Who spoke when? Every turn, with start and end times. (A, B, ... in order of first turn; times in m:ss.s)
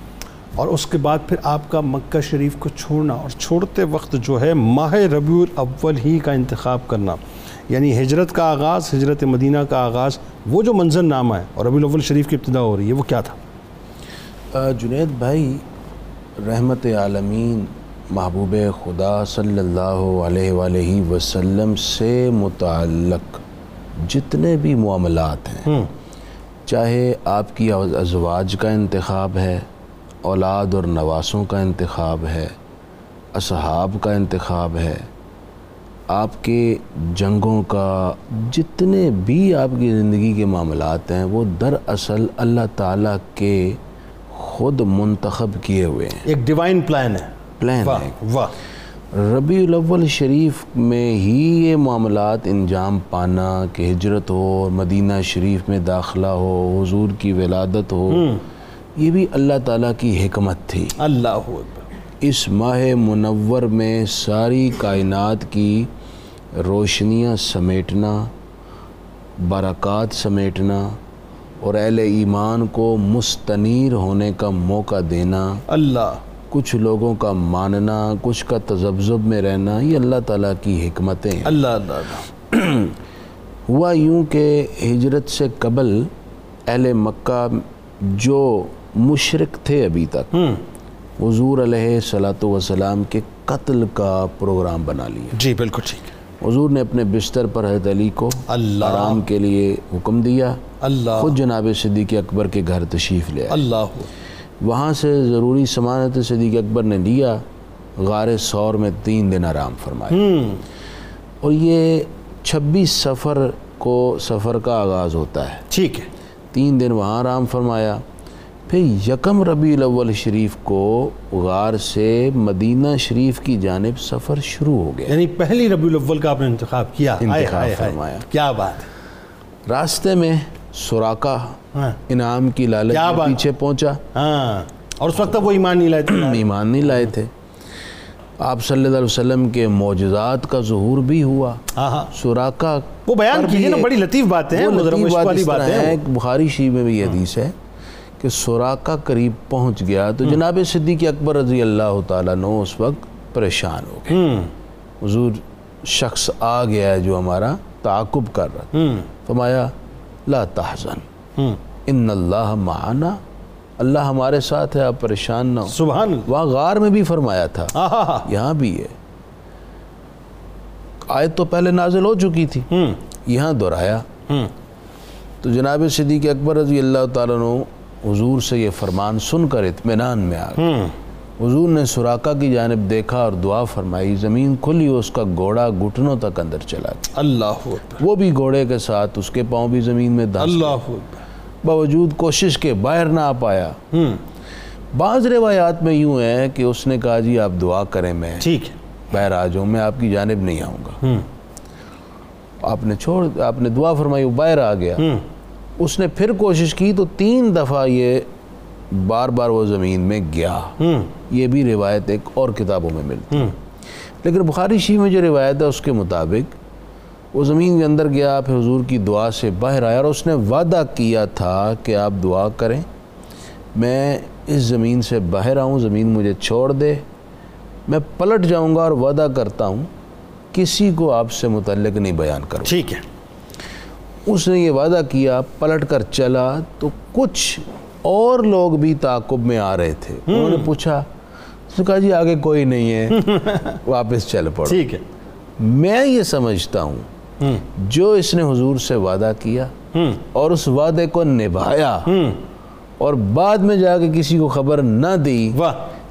0:00.6-0:13.4 A
0:14.5-0:15.6 B
0:16.4-0:23.4 B
0:24.0-0:25.8 B
0:26.6-0:29.6 B
0:30.2-0:32.5 B
0:33.3-0:35.1 B
0:36.1-0:43.8 B
0:44.3-0:46.2 B
0:46.2-0:47.3 A
0:47.6-0:48.2 B
0:47.8-0:48.6 A
0:49.1-0:58.4 B
0:58.1-0:58.4 A
0:59.0-1:01.0 B
1:01.0-1:01.9 A
1:02.2-1:05.9 B
1:06.6-1:08.3 B
1:09.4-1:11.0 B
1:11.6-1:15.6 B
1:15.7-1:16.2 A
1:16.5-1:21.6 B
1:21.4-1:22.3 A
1:22.4-1:23.0 B
1:23.7-1:26.1 B
1:26.7-1:30.4 B
1:30.3-1:30.6 A
1:31.2-1:35.4 B
1:35.3-1:36.1 A
1:36.4-1:40.6 B
1:38.5-1:39.2 A
1:40.8-1:41.4 A
1:41.1-1:43.6 B
1:43.5-1:44.1 A
1:44.6-1:47.4 B
1:48.0-1:50.3 B
1:50.1-1:50.6 A
1:51.4-1:55.6 B
1:55.7-1:56.1 A
1:56.5-1:58.0 B
1:58.7-2:05.2 B
2:05.1-2:08.9 A
2:07.2-2:08.2 B
2:09.7-2:11.6 B
2:11.7-2:12.0 A
2:12.1-2:14.0 B
2:12.9-2:13.4 A
2:14.1-2:16.4 A
2:16.1-2:17.3 B
2:18.4-2:21.6 B
2:21.7-2:22.1 A
2:22.1-2:23.9 B
2:23.1-2:26.0 A
2:24.5-2:27.5 B
2:28.2-2:34.2 B
2:34.1-2:34.5 A
2:35.0-2:38.7 B
2:38.7-2:39.1 A
2:39.2-2:39.7 B
2:40.3-2:41.0 B
2:41.8-2:43.2 B
2:43.8-2:48.9 B
2:45.7-2:46.3 A
2:47.7-2:48.3 A
2:51.1-2:52.7 B
2:52.7-2:53.0 A
2:53.2-2:54.0 B
2:55.4-3:00.7 B
3:00.6-3:00.9 A
3:01.4-3:07.1 B
3:07.1-3:08.0 A
3:08.0-3:10.8 B
3:10.4-3:11.2 A
3:11.6-3:13.8 B
3:13.9-3:14.2 A
3:14.9-3:18.5 B
3:18.4-3:18.8 A
3:19.1-3:21.0 B
3:22.6-3:25.1 B
3:25.0-3:25.2 A
3:25.8-3:28.3 B
3:28.9-3:30.8 B
3:30.8-3:31.1 A
3:31.3-3:33.6 B
3:34.2-3:36.6 B
3:37.3-3:42.8 B
3:43.8-3:47.0 B
3:47.9-3:49.9 B
3:50.5-3:52.8 B
3:52.6-3:53.0 A
3:54.3-4:01.0 B
4:00.3-4:00.7 A
4:01.7-4:04.9 B
4:03.1-4:03.8 A
4:04.6-4:05.0 A
4:05.6-4:07.1 B
4:07.6-4:12.1 B
4:09.9-4:10.2 A
4:12.0-4:12.4 A
4:13.0-4:15.6 B
4:15.5-4:15.9 A